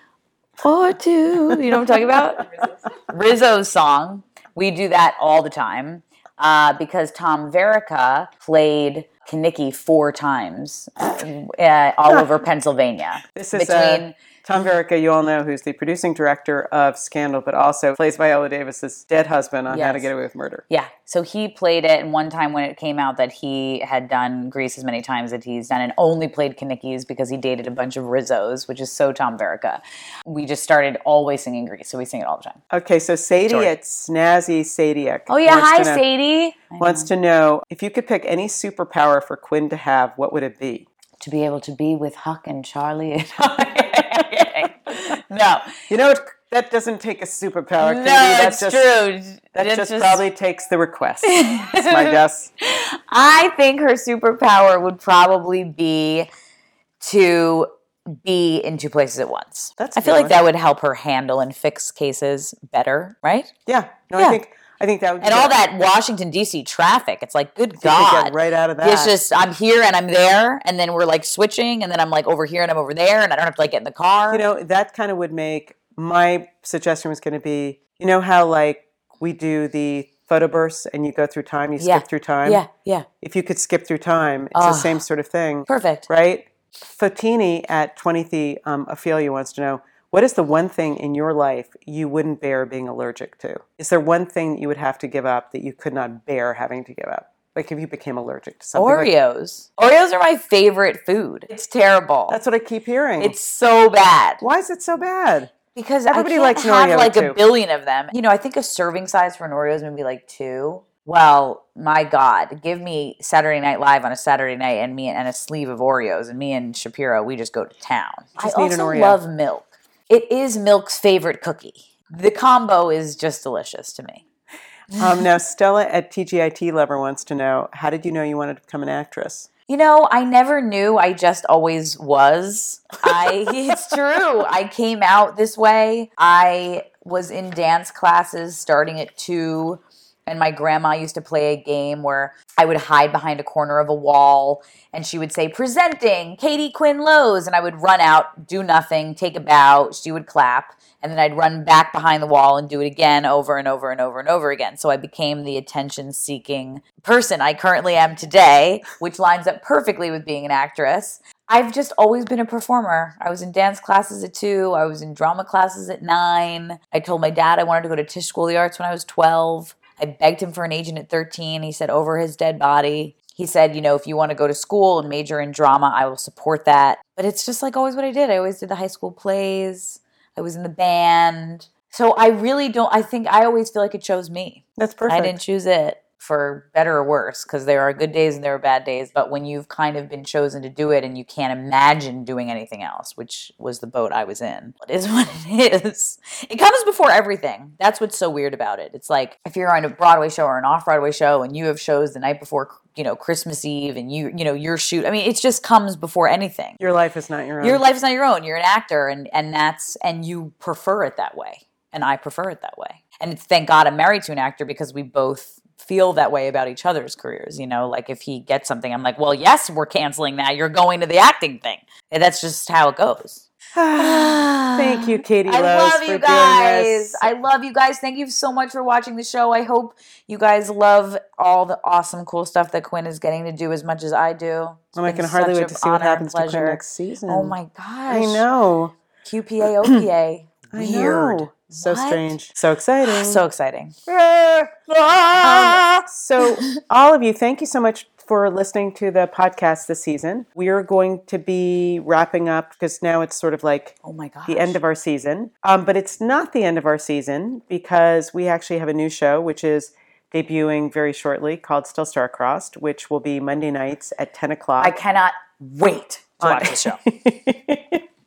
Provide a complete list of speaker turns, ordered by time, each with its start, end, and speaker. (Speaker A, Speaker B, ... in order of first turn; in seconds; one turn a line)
Speaker A: 0.6-14.1
Speaker B: 1.5-2.0
Speaker B: 13.3-20.6
Speaker A: 19.7-20.1
Speaker A: 20.7-32.6
Speaker B: 32.7-36.0
Speaker A: 33.5-33.7
Speaker A: 35.3-37.1
Speaker B: 36.8-40.9
Speaker A: 41.2-45.7
Speaker B: 45.9-48.9
Speaker A: 47.8-50.2
Speaker B: 49.5-52.5
Speaker A: 51.2-56.3
Speaker A: 57.0-63.5
Speaker B: 59.8-60.5
Speaker B: 63.6-65.6
Speaker A: 65.2-74.4
Speaker B: 67.8-69.1
Speaker B: 74.3-82.6
Speaker A: 81.8-83.1
Speaker B: 83.2-99.1
Speaker A: 84.5-85.0
Speaker A: 85.7-86.1
Speaker A: 98.7-102.4
Speaker B: 102.3-103.3
Speaker A: 103.2-104.4
Speaker B: 104.4-105.5
Speaker A: 105.7-124.2
Speaker B: 106.1-107.4
Speaker B: 118.4-119.2
Speaker A: 124.9-125.2
Speaker B: 124.9-129.5
Speaker A: 129.7-206.8
Speaker B: 184.8-185.4
Speaker B: 206.8-207.8
Speaker A: 207.6-223.4
Speaker B: 223.7-227.3
Speaker A: 223.9-238.4
Speaker B: 234.9-237.6
Speaker B: 238.1-238.9
Speaker A: 239.2-242.4
Speaker B: 239.7-240.0
Speaker B: 240.7-243.4
Speaker A: 243.0-246.7
Speaker B: 245.4-253.9
Speaker A: 254.0-254.8
Speaker B: 254.5-264.9
Speaker A: 264.8-267.0
Speaker B: 266.4-268.0